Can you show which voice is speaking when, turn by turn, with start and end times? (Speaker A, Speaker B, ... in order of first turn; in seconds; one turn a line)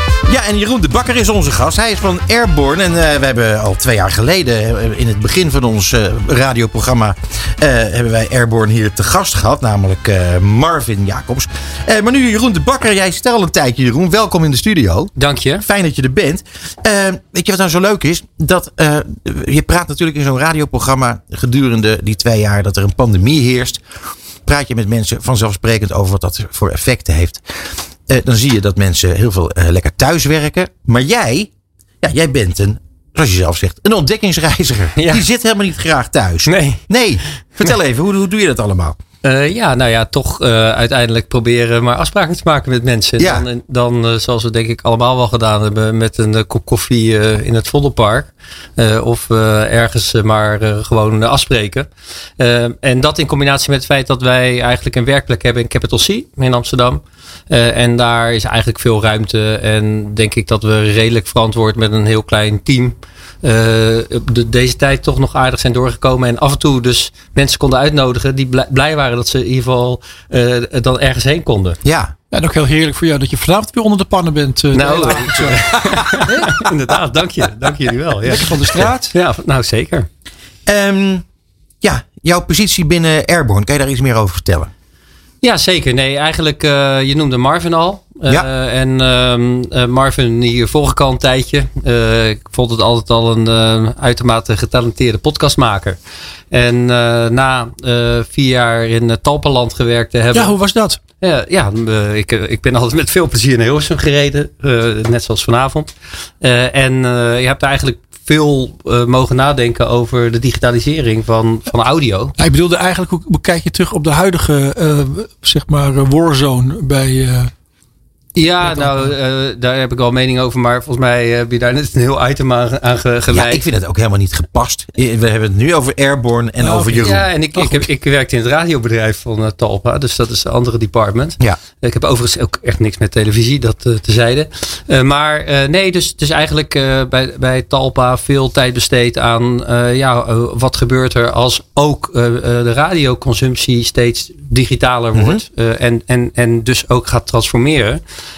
Speaker A: 0.3-23.8
Speaker B: 15.2-15.6
Speaker A: 24.4-31.5
Speaker A: 32.0-39.0
Speaker B: 35.0-35.2
Speaker B: 36.5-36.8
Speaker B: 39.2-51.9
Speaker A: 43.2-43.5
Speaker B: 52.4-71.8
Speaker A: 71.8-72.1
Speaker C: 72.3-76.7
Speaker B: 74.7-80.1
Speaker C: 78.2-79.1
Speaker A: 80.7-81.2
Speaker A: 81.8-84.7
Speaker B: 85.4-96.0
Speaker B: 96.5-100.5
Speaker C: 100.3-101.0
Speaker B: 101.2-112.3
Speaker C: 112.4-117.5
Speaker B: 118.3-123.6
Speaker C: 118.6-119.1
Speaker A: 123.3-127.3
Speaker C: 126.6-127.8
Speaker B: 127.0-148.0
Speaker A: 145.1-145.4